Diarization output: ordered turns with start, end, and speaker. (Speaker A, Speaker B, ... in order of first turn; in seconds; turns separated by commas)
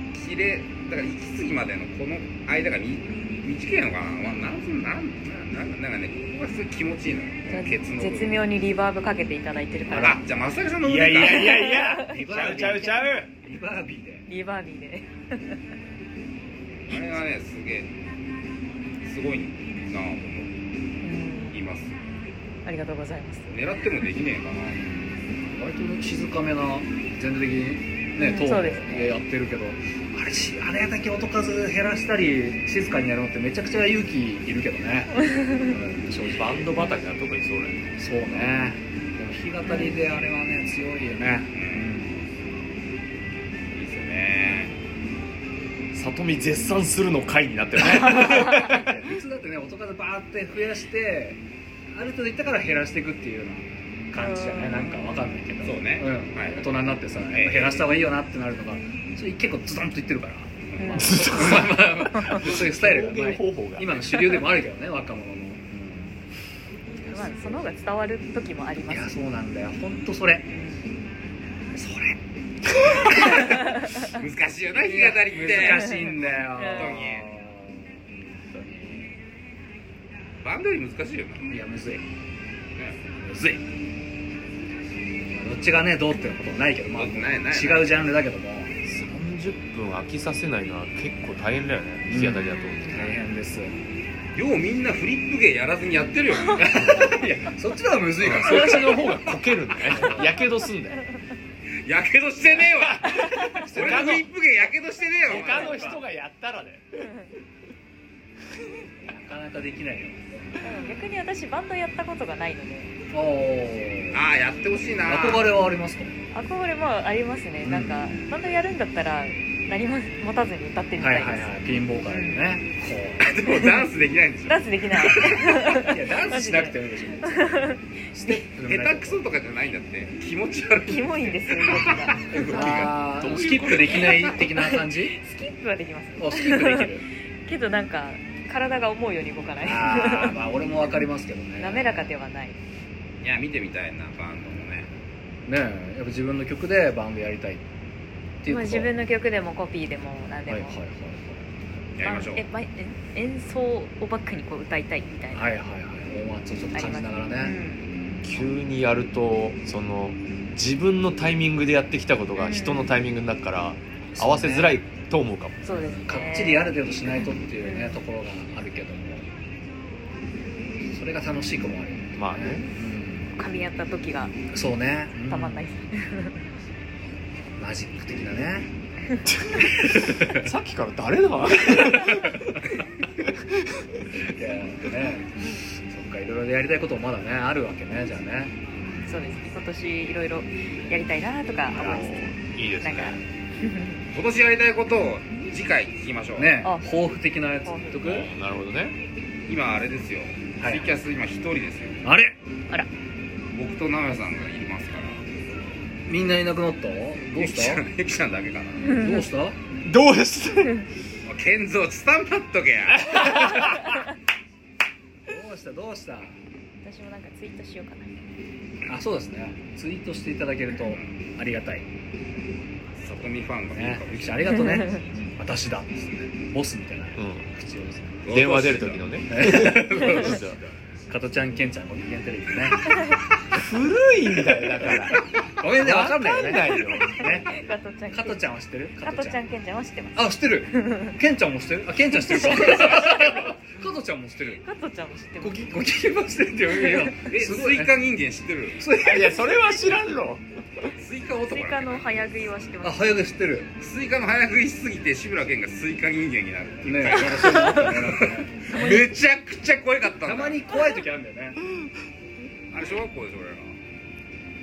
Speaker A: 0.1-8.4, Speaker B: 7.5-10.2, Speaker A: 9.9-11.7, Speaker C: 10.8-13.3, Speaker B: 11.2-12.7, Speaker D: 12.0-14.3, Speaker B: 14.3-15.6, Speaker A: 16.9-17.9, Speaker A: 19.0-20.6, Speaker B: 21.0-21.6, Speaker A: 21.5-22.0, Speaker B: 22.6-23.5, Speaker A: 23.5-24.9, Speaker D: 24.9-36.6, Speaker B: 28.2-29.1, Speaker B: 35.3-35.7, Speaker C: 36.3-37.9, Speaker D: 38.0-42.2, Speaker B: 39.6-40.0, Speaker A: 41.5-42.0, Speaker A: 43.7-44.7, Speaker C: 45.9-49.1, Speaker D: 47.9-66.2, Speaker B: 48.1-48.6, Speaker B: 54.2-55.4, Speaker A: 55.6-58.0, Speaker A: 60.7-61.3, Speaker B: 60.8-61.3, Speaker C: 61.0-64.4, Speaker B: 62.1-62.4, Speaker D: 67.0-67.6, Speaker B: 67.0-69.1, Speaker D: 68.9-70.5, Speaker B: 70.5-70.9, Speaker D: 71.7-72.2, Speaker D: 72.8-73.7, Speaker A: 73.2-73.4, Speaker B: 73.4-74.1, Speaker A: 74.0-77.3, Speaker D: 74.7-79.1, Speaker B: 75.6-76.0, Speaker B: 76.6-77.0, Speaker A: 80.4-81.6, Speaker D: 81.5-82.1, Speaker D: 83.2-83.6, Speaker D: 85.3-88.7, Speaker A: 86.9-88.1, Speaker C: 88.8-93.1, Speaker D: 92.1-93.7, Speaker B: 92.4-93.1, Speaker A: 94.3-97.2, Speaker D: 96.5-99.2, Speaker A: 98.2-98.6, Speaker C: 98.2-101.0, Speaker D: 99.9-100.4, Speaker A: 101.8-105.8, Speaker C: 102.8-104.3, Speaker B: 103.0-103.7, Speaker D: 103.5-104.3, Speaker C: 105.2-107.1, Speaker D: 105.3-106.0, Speaker D: 109.0-110.3, Speaker B: 110.6-112.9, Speaker D: 113.1-114.2, Speaker A: 114.1-115.5, Speaker D: 115.0-116.2, Speaker B: 116.3-121.5, Speaker D: 117.6-118.1, Speaker D: 121.0-123.4, Speaker B: 122.1-122.5, Speaker A: 123.2-125.5, Speaker B: 123.5-123.8, Speaker B: 124.5-128.4, Speaker D: 125.4-129.2, Speaker A: 128.5-133.0, Speaker B: 130.9-132.8, Speaker D: 132.3-135.2, Speaker C: 132.4-134.3, Speaker A: 133.7-134.2, Speaker B: 134.4-140.4, Speaker D: 136.2-137.1, Speaker D: 139.6-142.1, Speaker B: 141.6-142.6, Speaker A: 143.2-144.9, Speaker D: 145.4-147.6, Speaker D: 148.4-148.9, Speaker B: 148.5-150.8, Speaker D: 150.5-151.9, Speaker A: 151.9-152.4, Speaker B: 152.0-155.4, Speaker D: 155.3-158.3, Speaker B: 156.7-157.9, Speaker C: 158.2-165.7, Speaker B: 162.4-162.9, Speaker D: 164.1-164.8, Speaker B: 165.6-168.0, Speaker D: 165.7-169.3, Speaker D: 170.9-173.3, Speaker C: 172.2-172.6, Speaker B: 173.3-174.3, Speaker D: 174.5-175.6, Speaker B: 175.3-176.3, Speaker D: 177.5-178.7, Speaker C: 179.3-182.6, Speaker D: 179.5-180.5, Speaker D: 181.6-182.6, Speaker C: 183.2-184.2, Speaker D: 184.2-189.3, Speaker B: 189.0-192.1, Speaker D: 191.7-192.1, Speaker C: 191.7-193.2, Speaker B: 192.8-194.0, Speaker A: 194.1-196.6, Speaker D: 196.3-198.3, Speaker B: 197.6-198.2, Speaker C: 198.0-198.9, Speaker A: 199.5-202.1, Speaker D: 200.6-200.9, Speaker D: 202.0-202.3, Speaker A: 203.5-205.6, Speaker D: 206.1-207.8, Speaker A: 207.3-209.0, Speaker B: 208.8-209.3, Speaker D: 208.9-209.6, Speaker C: 209.8-210.8, Speaker A: 211.2-213.6, Speaker C: 213.0-213.8, Speaker B: 213.5-214.1, Speaker D: 215.2-216.4, Speaker B: 216.8-218.1, Speaker D: 218.9-221.8, Speaker A: 220.8-221.2, Speaker A: 223.0-224.9, Speaker D: 223.7-228.4, Speaker B: 224.7-225.0, Speaker C: 227.2-227.5, Speaker A: 228.2-229.1, Speaker C: 228.3-230.6, Speaker D: 229.3-233.1, Speaker C: 233.5-237.5, Speaker D: 234.6-237.5, Speaker B: 236.7-238.5, Speaker D: 238.1-239.4, Speaker B: 239.0-241.2, Speaker D: 240.1-244.6, Speaker B: 242.2-243.5, Speaker B: 244.6-245.8, Speaker D: 245.4-247.9, Speaker B: 246.7-247.1, Speaker A: 247.2-248.8, Speaker D: 248.8-249.6, Speaker C: 249.0-250.9, Speaker A: 251.0-252.1, Speaker B: 251.5-253.1, Speaker D: 252.8-253.7, Speaker A: 253.8-260.7, Speaker D: 256.9-258.9, Speaker B: 258.7-259.1, Speaker D: 260.2-261.6, Speaker A: 262.7-263.8